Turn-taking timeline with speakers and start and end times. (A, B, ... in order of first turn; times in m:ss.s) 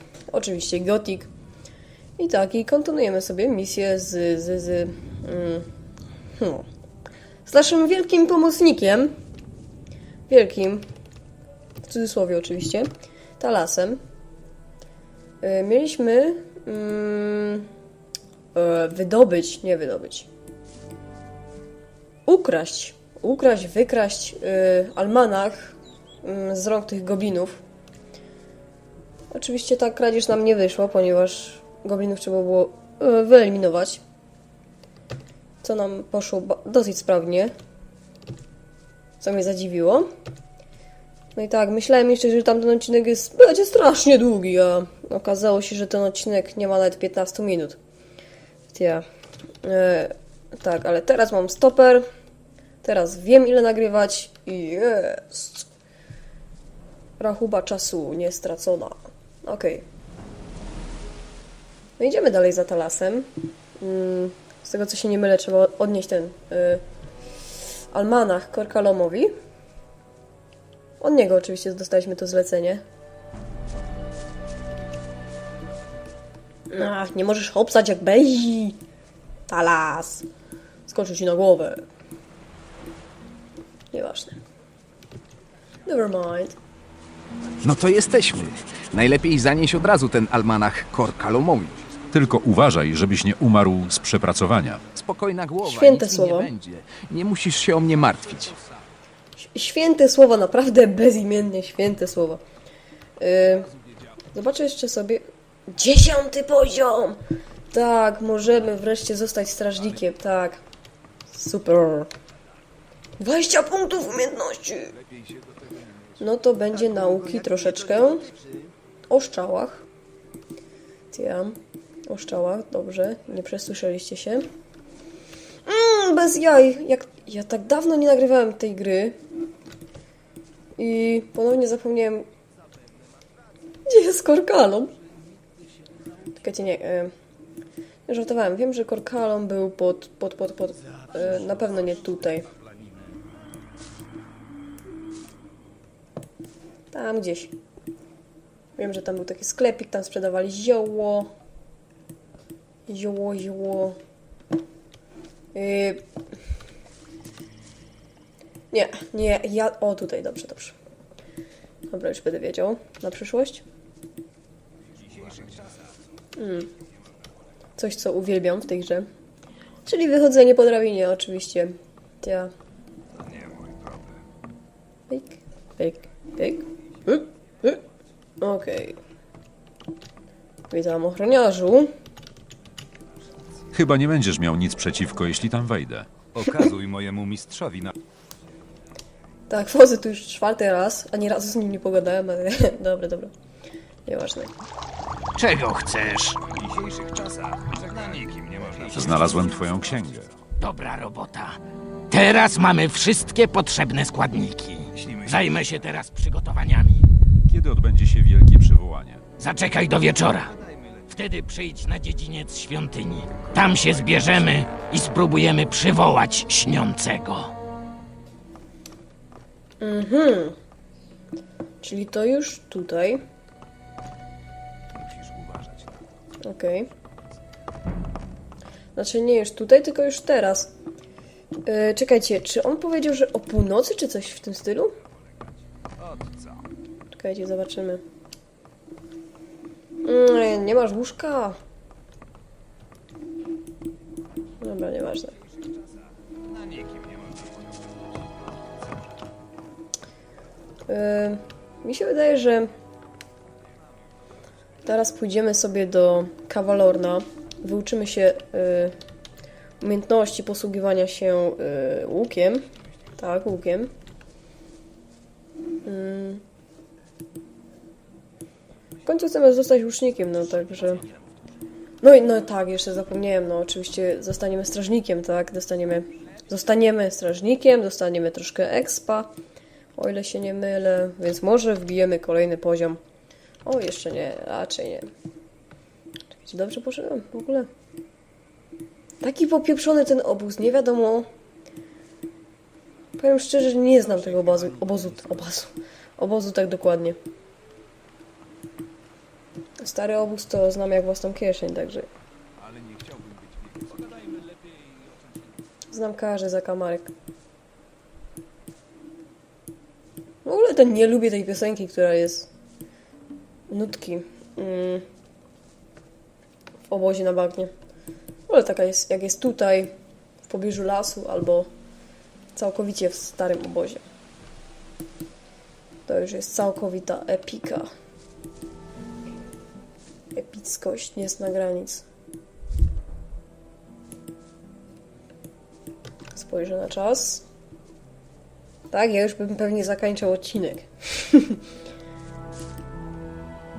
0:00.3-0:01.3 A
0:02.2-0:05.7 A
0:06.4-0:06.6 A
0:07.4-0:09.1 A
0:10.3-0:10.8 A
0:11.8-0:14.0 A
0:15.4-0:17.7 A
0:18.5-0:20.3 A
0:22.2-0:27.6 A
0:29.3-0:34.0 A
0:35.6-0:37.5 A
0:39.2-0:40.1 A
0:41.3-0:47.8 A
0:48.7-0:49.0 A
0:49.6-0:52.1 A
0:52.8-0:55.7 A
0:57.2-0:59.8 A
1:02.0-1:06.8 A
1:07.9-1:09.3 A
1:11.0-1:12.8 A
1:16.7-1:18.8 A
1:19.5-1:20.2 A
1:20.9-1:21.8 A
1:23.9-1:24.4 A
1:25.8-1:26.6 A
1:27.6-1:31.8 B
1:32.1-1:34.8 C
1:34.9-1:38.6 B
1:35.6-1:36.5 A
1:39.4-1:42.4 A
1:43.2-1:43.7 A
1:44.3-1:47.2 A
1:47.7-1:50.6 A
1:51.3-1:52.1 A
1:53.2-1:55.0 A
1:56.2-1:58.3 A
1:59.1-1:59.8 A
2:01.1-2:01.6 A
2:02.1-2:04.5 A
2:05.6-2:09.2 A
2:10.8-2:12.3 A
2:13.8-2:14.9 A
2:16.4-2:17.1 A
2:18.1-2:22.5 A
2:26.9-2:27.5 A
2:28.8-2:31.3 A
2:32.9-2:34.0 A
2:35.5-2:36.0 A
2:38.7-2:40.8 A
2:41.9-2:43.6 A
2:46.4-2:46.7 A
2:47.8-2:49.1 A
2:49.8-2:52.5 A
2:55.1-2:57.8 A
2:58.4-2:59.0 A
3:00.7-3:01.9 A
3:03.7-3:06.1 C
3:06.5-3:07.9 D
3:09.5-3:13.3 A
3:14.0-3:14.5 A
3:15.4-3:16.4 E
3:17.7-3:19.4 D
3:18.9-3:20.3 C
3:20.6-3:27.1 E
3:27.5-3:29.2 C
3:29.4-3:30.5 E
3:31.1-3:37.5 E
3:39.8-3:40.6 A
3:41.8-3:43.2 A
3:46.4-3:46.9 A
3:49.0-3:50.7 A
3:51.6-3:54.9 A
3:57.1-3:58.0 A
4:00.0-4:01.6 A
4:04.6-4:05.4 A
4:10.9-4:12.7 A
4:14.8-4:18.9 A
4:19.8-4:22.6 A
4:23.2-4:23.9 A
4:25.8-4:26.4 A
4:29.0-4:31.0 A
4:32.0-4:39.3 A
4:40.0-4:43.0 A
4:43.6-4:45.1 A
4:46.3-4:47.7 A
4:49.2-4:51.3 A
4:53.2-4:57.2 A
4:59.8-5:02.1 A
5:05.9-5:07.1 A
5:10.4-5:12.5 A
5:13.7-5:15.0 A
5:16.9-5:17.7 A
5:18.5-5:19.9 A
5:20.5-5:21.7 A
5:22.5-5:24.0 A
5:26.1-5:27.9 A
5:30.3-5:32.0 A
5:36.3-5:37.4 A
5:38.9-5:41.6 A